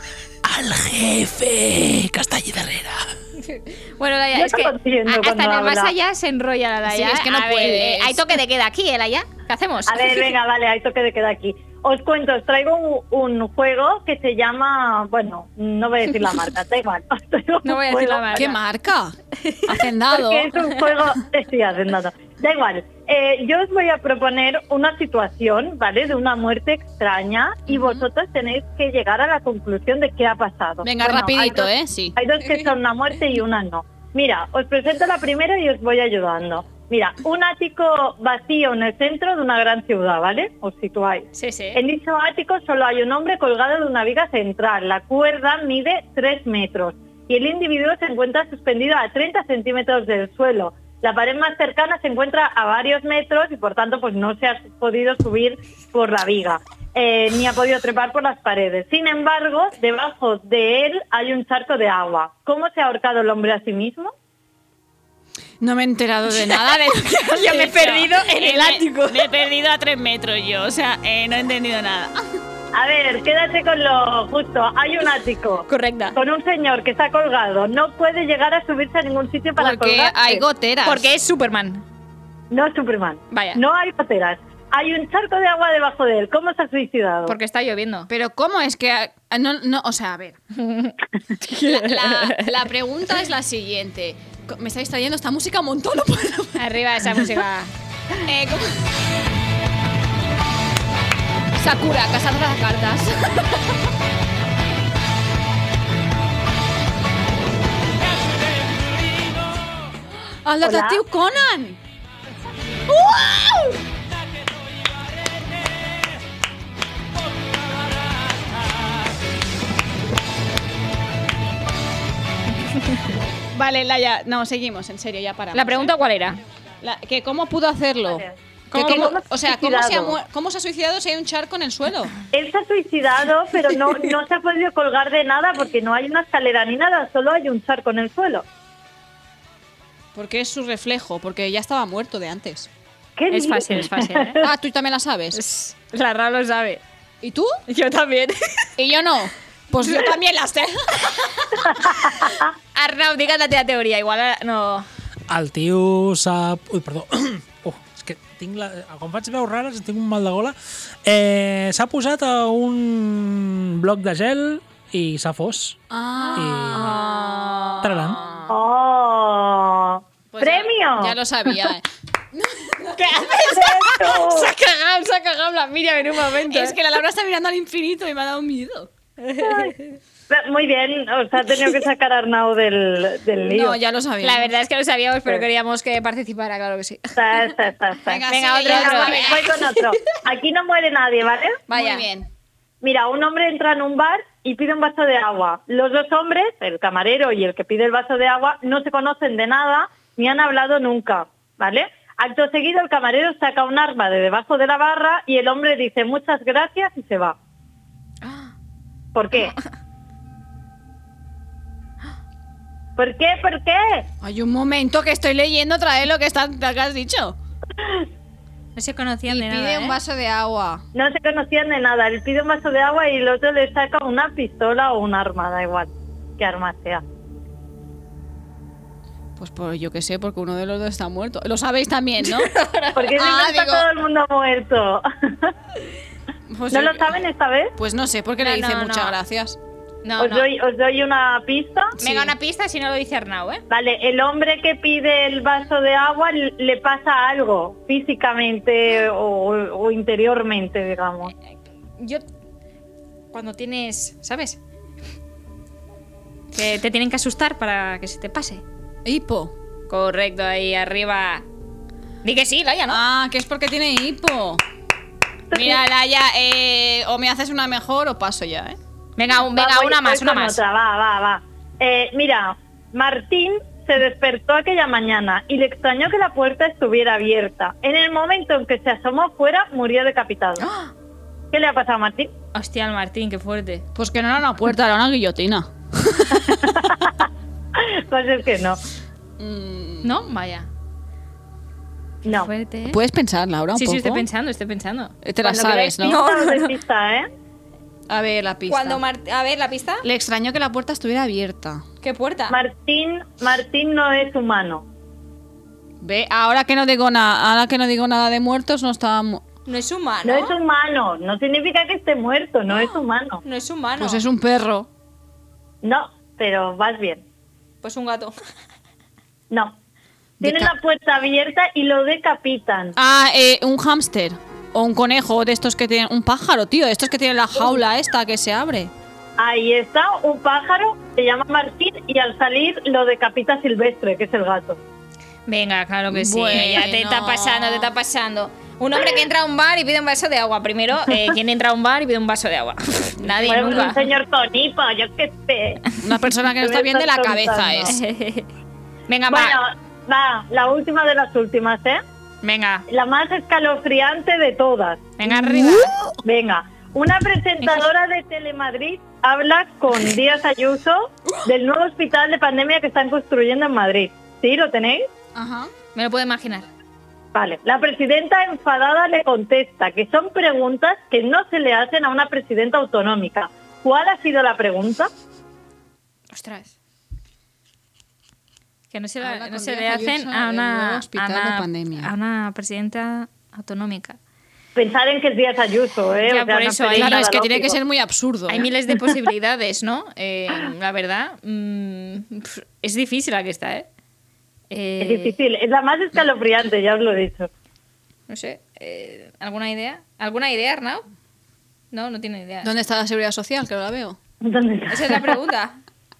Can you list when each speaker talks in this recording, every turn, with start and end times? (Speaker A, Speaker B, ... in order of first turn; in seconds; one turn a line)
Speaker A: 0.4-3.1
Speaker B: 3.5-10.3
Speaker C: 4.3-5.9
Speaker D: 6.9-8.4
Speaker C: 9.9-18.5
Speaker B: 17.6-18.6
Speaker D: 18.4-20.6
Speaker B: 19.4-19.7
Speaker C: 20.1-64.1
Speaker D: 27.7-28.0
Speaker D: 30.8-32.5
Speaker B: 41.4-41.8
Speaker D: 65.6-72.2
Speaker B: 67.3-69.3
Speaker C: 72.8-80.4
Speaker B: 75.7-76.2
Speaker D: 79.6-81.1
Speaker B: 80.8-81.8
Speaker C: 82.5-87.3
Speaker B: 83.3-83.6
Speaker B: 87.3-88.1
Speaker D: 88.1-90.4
Speaker B: 90.6-92.5
Speaker D: 91.6-97.3
Speaker B: 96.6-97.7
Speaker D: 98.2-98.8
Speaker D: 101.6-103.7
Speaker D: 110.5-111.8
Speaker C: 110.6-111.0
Speaker D: 112.9-113.8
Speaker D: 123.5-125.9
Speaker B: 125.5-126.4
Speaker D: 126.8-132.2
Speaker B: 128.7-129.2
Speaker C: 128.7-130.2
Speaker C: 132.3-138.4
Speaker D: 140.2-142.7
Speaker C: 143.2-144.5
Speaker B: 143.3-144.4
Speaker D: 144.4-145.4
Speaker B: 145.3-146.8
Speaker D: 147.2-147.6
Speaker B: 147.7-148.7
Speaker D: 148.8-151.7
Speaker B: 152.8-154.9
Speaker E: 155.3-165.8
Speaker D: 165.9-168.5
Speaker E: 166.4-166.9
Speaker B: 166.7-167.8
Speaker E: 167.8-168.2
Speaker C: 168.5-171.2
Speaker D: 170.3-173.7
Speaker B: 173.0-176.8
Speaker C: 173.6-174.5
Speaker D: 176.3-178.9
Speaker B: 179.2-180.0
Speaker C: 180.3-183.8
Speaker D: 183.5-184.5
Speaker B: 184.2-187.2
Speaker C: 187.2-191.6
Speaker D: 188.1-189.8
Speaker B: 188.3-189.4
Speaker B: 191.7-192.1
Speaker D: 191.7-192.3
Speaker C: 192.8-207.4
Speaker B: 208.2-208.5
Speaker C: 209.2-209.6
Speaker C: 213.0-214.1
Speaker D: 214.2-217.4
Speaker C: 217.8-218.1
Speaker B: 218.8-220.0
Speaker D: 219.3-220.8
Speaker C: 220.9-227.0
Speaker D: 229.4-232.5
Speaker B: 232.4-233.2
Speaker C: 233.0-235.5
Speaker D: 233.2-233.9
Speaker D: 236.5-237.2
Speaker C: 236.7-237.7
Speaker D: 237.8-239.6
Speaker B: 238.4-239.2
Speaker B: 240.0-240.5
Speaker C: 240.2-241.9
Speaker B: 242.0-243.6
Speaker D: 242.0-242.3
Speaker C: 243.7-251.3
Speaker B: 252.0-252.2
Speaker B: 253.3-254.6
Speaker B: 256.5-258.6
Speaker D: 259.1-259.5
Speaker B: 259.9-261.5
Speaker B: 262.2-263.0
Speaker D: 262.9-264.6
Speaker C: 265.5-265.8
Speaker D: 265.5-268.8
Speaker B: 269.2-270.6
Speaker C: 269.4-280.6
Speaker C: 281.5-282.3
Speaker B: 282.5-283.9
Speaker D: 284.0-286.7
Speaker C: 286.7-288.8
Speaker D: 289.4-290.2
Speaker B: 290.0-290.7
Speaker B: 292.3-293.0
Speaker D: 292.9-294.2
Speaker B: 293.8-295.2
Speaker D: 295.2-296.2
Speaker C: 295.4-297.3
Speaker B: 296.0-296.7
Speaker D: 298.1-299.0
Speaker B: 298.7-300.1
Speaker D: 300.0-301.9
Speaker B: 302.0-302.6
Speaker C: 302.5-304.9
Speaker D: 306.0-309.4
Speaker B: 309.7-310.5
Speaker C: 310.2-313.4
Speaker B: 313.4-314.2
Speaker D: 314.0-314.9
Speaker C: 315.8-317.2
Speaker B: 317.8-318.3
Speaker D: 320.4-320.7
Speaker C: 320.4-322.9
Speaker D: 323.0-328.9
Speaker C: 329.4-334.8
Speaker B: 335.5-344.1
Speaker D: 336.1-337.9
Speaker C: 343.4-345.9
Speaker D: 346.0-348.0
Speaker C: 346.6-348.0
Speaker B: 347.9-348.5
Speaker B: 349.1-349.6
Speaker C: 349.3-352.0
Speaker B: 352.4-352.9
Speaker C: 352.9-355.1
Speaker B: 355.2-355.9
Speaker D: 355.3-356.2
Speaker C: 356.2-365.1
Speaker B: 357.6-357.9
Speaker D: 365.4-365.7
Speaker B: 365.9-366.7
Speaker C: 367.3-375.1
Speaker B: 376.3-376.7
Speaker B: 378.9-384.2
Speaker D: 379.2-382.1
Speaker C: 384.8-387.8
Speaker B: 386.3-387.4
Speaker D: 386.9-388.7
Speaker B: 388.5-393.9
Speaker B: 394.7-395.4
Speaker C: 395.0-397.5
Speaker B: 398.3-401.0
Speaker B: 401.9-402.7
Speaker D: 402.6-404.2
Speaker C: 404.4-405.4
Speaker B: 404.9-405.8